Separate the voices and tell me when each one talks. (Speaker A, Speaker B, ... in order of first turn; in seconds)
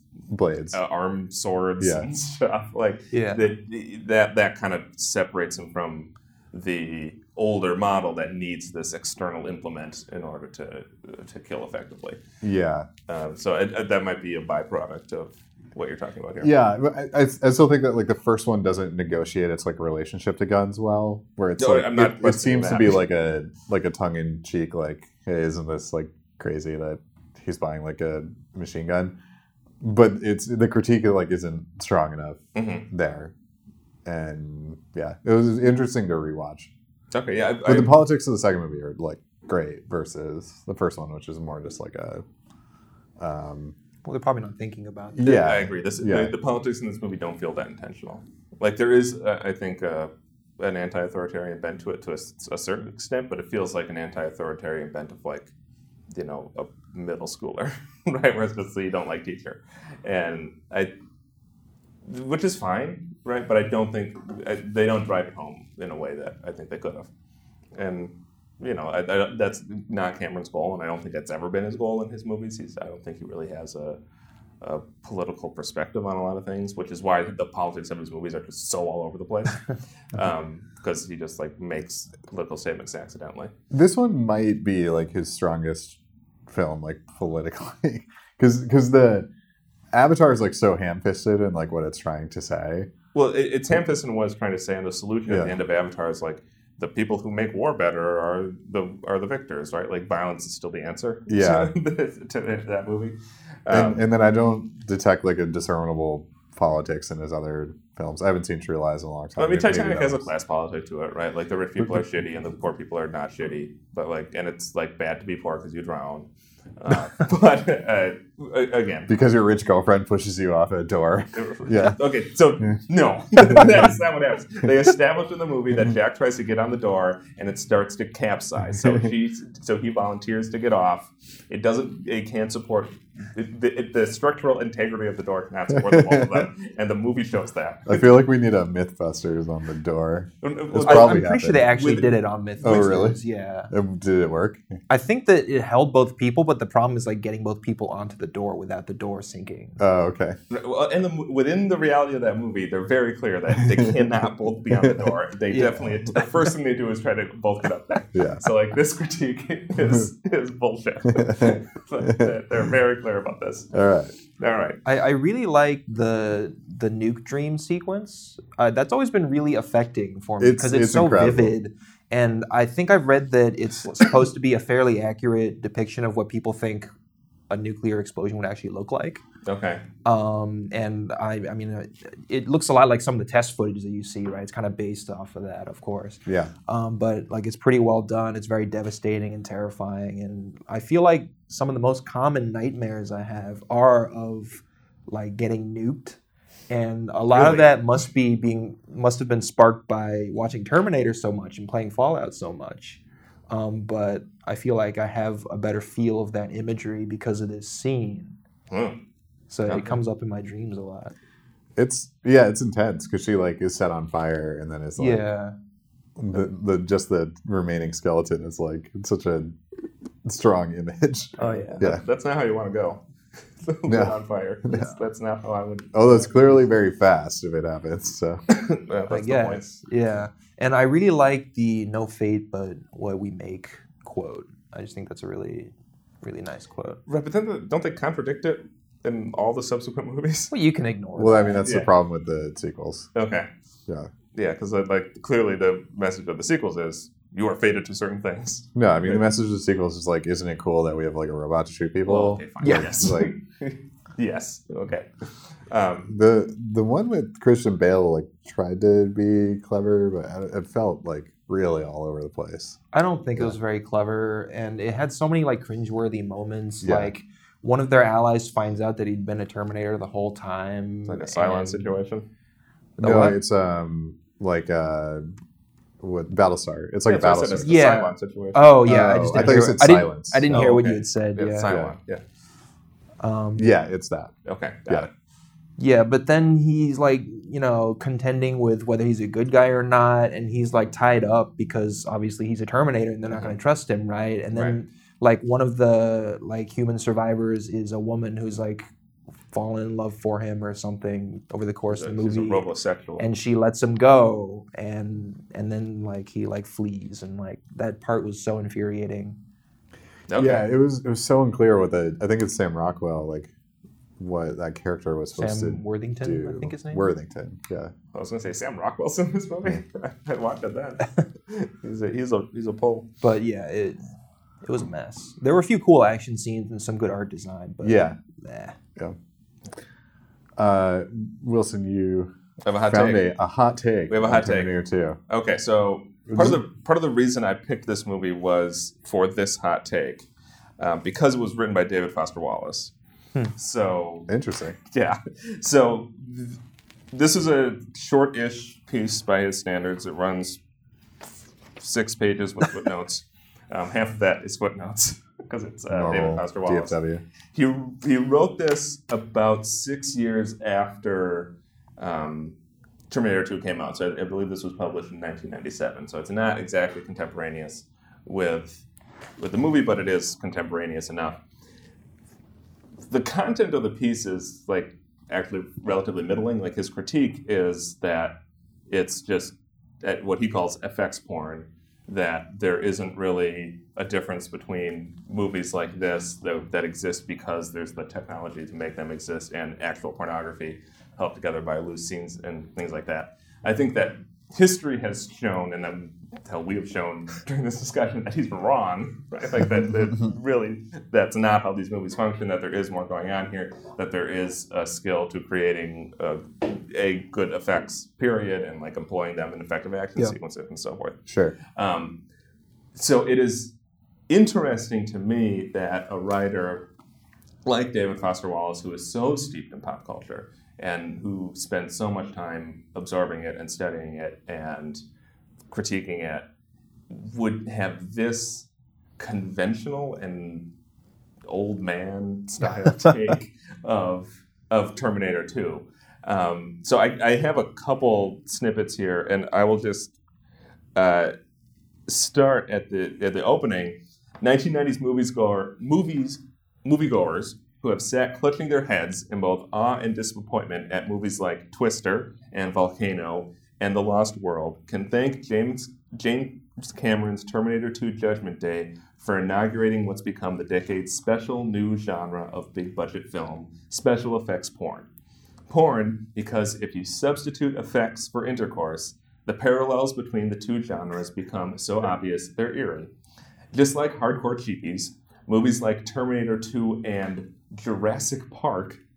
Speaker A: 0.3-0.8, 1.8-2.1, 12.4-12.9, 16.4-29.1, 29.8-33.3, 34.0-36.7, 37.6-42.2, 43.2-43.8, 45.1-46.3, 83.7-89.3, 89.9-92.9, 95.3-95.5, 101.3-101.7, 103.7-110.3, 119.1-122.0, 123.4-124.0, 128.8-129.1, 135.7-136.5, 137.9-141.7, 142.6-143.2, 143.7-144.6, 149.8-150.4, 153.6-153.9, 154.7-155.1, 158.1-158.4, 161.1-162.3, 163.7-164.2, 170.4-171.5, 186.3-186.5, 211.8-215.2, 216.2-219.6, 220.2-222.0, 223.9-224.9, 225.9-228.4, 241.2-243.1, 248.8-253.3, 256.1-262.8, 266.8-267.1, 273.0-275.3, 276.0-277.9, 278.9-280.8, 281.7-281.9, 283.6-284.3, 310.4-313.5, 314.2-317.9, 327.8-328.2, 330.6-332.3, 332.9-335.2, 336.3-336.6, 344.3-344.8, 355.9-357.2, 411.3-411.6
Speaker B: 0.7-12.2, 13.1-16.5, 21.6-23.0, 32.5-32.9, 37.1-37.9, 45.2-55.5, 56.1-60.9, 62.0-67.1, 67.8-74.0, 74.6-83.5, 93.1-104.0, 109.4-116.3, 116.8-119.1, 121.3-138.1, 140.4-142.1, 150.5-163.7, 164.4-164.8, 179.4-179.8, 197.3-198.0, 208.7-209.0, 209.7-210.0, 221.4-223.0, 223.6-226.5, 228.5-229.8, 237.1-240.5, 241.6-241.9, 243.2-243.5, 244.3-249.2, 252.0-255.1, 255.7-256.1, 271.1-272.2, 277.1-278.8, 280.5-282.2, 284.5-285.1, 301.9-303.3, 310.3-310.6, 318.1-323.1, 332.6-333.2, 334.1-334.7, 335.3-340.3, 340.8-342.9, 343.6-344.3, 344.9-346.6, 347.1-350.6, 351.8-356.9, 357.5-362.6, 363.1-368.9, 369.4-371.4, 373.1-378.4, 378.9-412.2, 412.9-413.7, 414.3-416.9, 417.7-425.0, 425.7-426.5, 427.1-428.7, 429.2-430.7, 431.5-440.1, 440.9-441.3, 442.1-465.1, 465.7-473.1, 473.7-479.0
Speaker C: 3.1-3.4, 44.0-45.4, 140.8-143.7, 144.9-149.8, 155.5-156.2, 164.8-176.9, 177.5-179.2, 180.1-208.4, 209.5-211.1, 215.0-215.6, 221.4-221.8, 229.1-237.0, 240.5-241.7, 252.6-253.1, 262.9-271.9, 273.0-273.4, 277.6-281.7, 283.2-283.7, 285.8-298.9, 299.5-302.7, 303.2-309.4, 315.3-317.0, 323.2-324.0, 324.6-328.8